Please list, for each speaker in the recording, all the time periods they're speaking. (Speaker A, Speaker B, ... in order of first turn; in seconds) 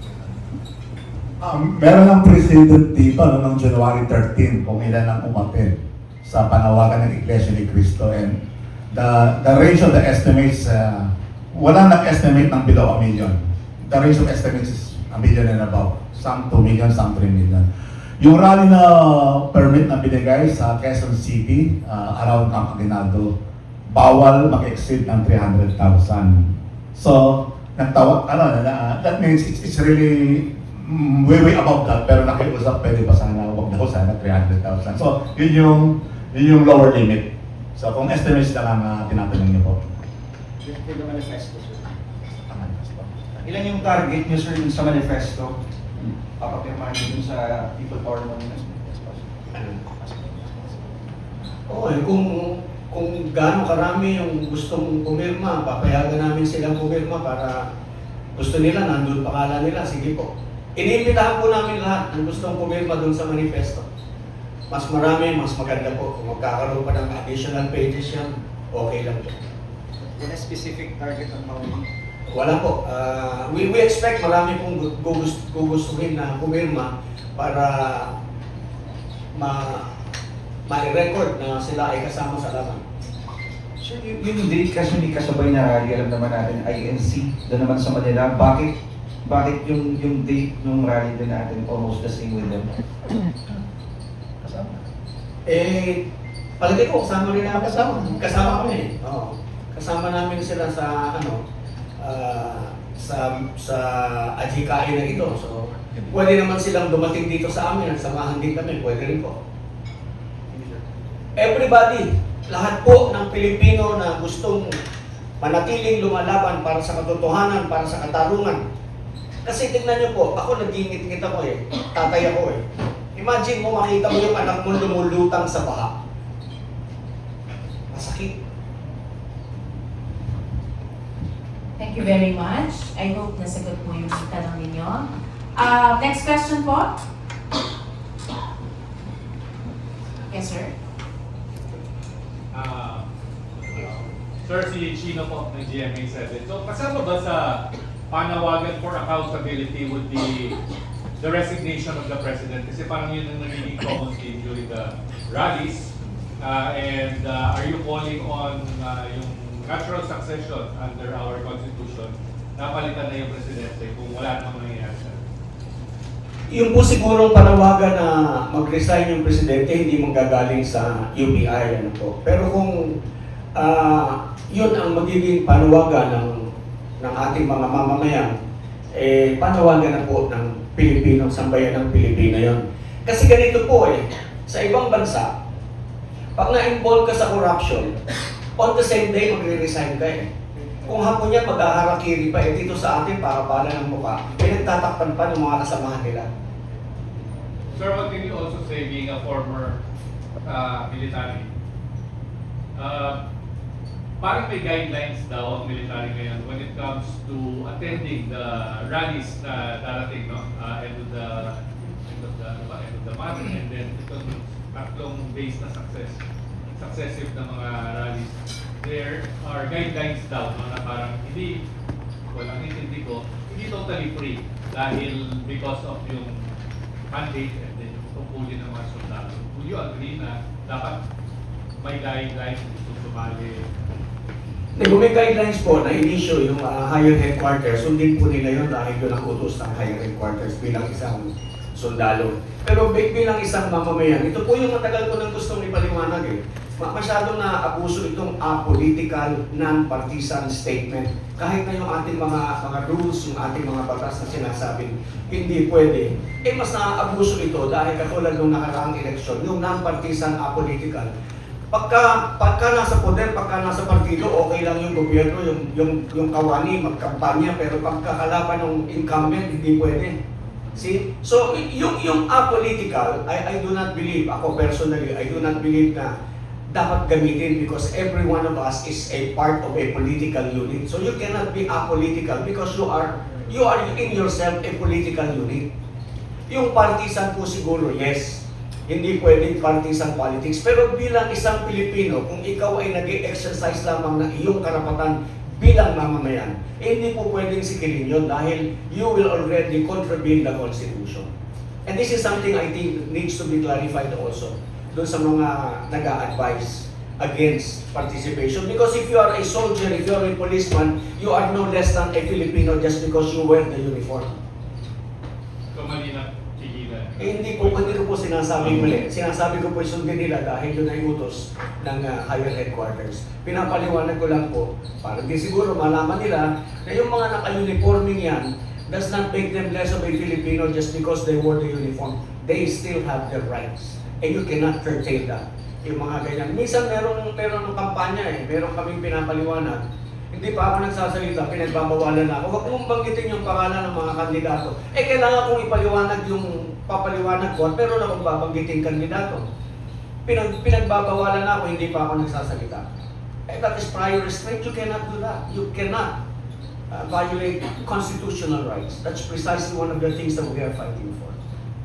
Speaker A: 1.4-8.4, 8.9-17.7, 18.2-23.3, 23.9-39.8, 42.5-43.2
Speaker B: 41.1-41.5, 43.4-49.3, 49.9-50.8, 83.8-92.7, 94.4-94.8
Speaker C: 49.5-49.8, 51.7-57.7, 58.4-63.9, 64.7-69.3, 72.3-78.1, 79.3-79.9, 80.7-82.8, 95.5-96.0, 96.6-101.4, 102.0-109.4, 111.4-114.7, 115.4-118.6, 119.5-122.6, 123.2-125.9, 127.9-128.4, 166.5-173.0, 173.6-176.5, 177.0-178.3, 178.9-185.3, 186.4-187.9, 188.6-190.3, 190.9-196.3, 234.8-261.1, 261.7-270.2, 270.8-276.1, 276.7-285.7, 286.5-301.3, 301.9-314.4, 317.2-339.8, 340.3-349.4, 350.3-352.9, 353.5-356.1, 356.9-361.4
Speaker D: 131.8-137.0, 140.3-140.7
Speaker E: 142.5-143.1, 143.6-150.6, 151.2-165.2, 197.8-199.8, 200.4-201.5, 202.8-203.2, 204.2-216.2, 216.8-221.6, 222.3-226.5, 227.1-231.0, 231.8-233.7, 315.7-318.9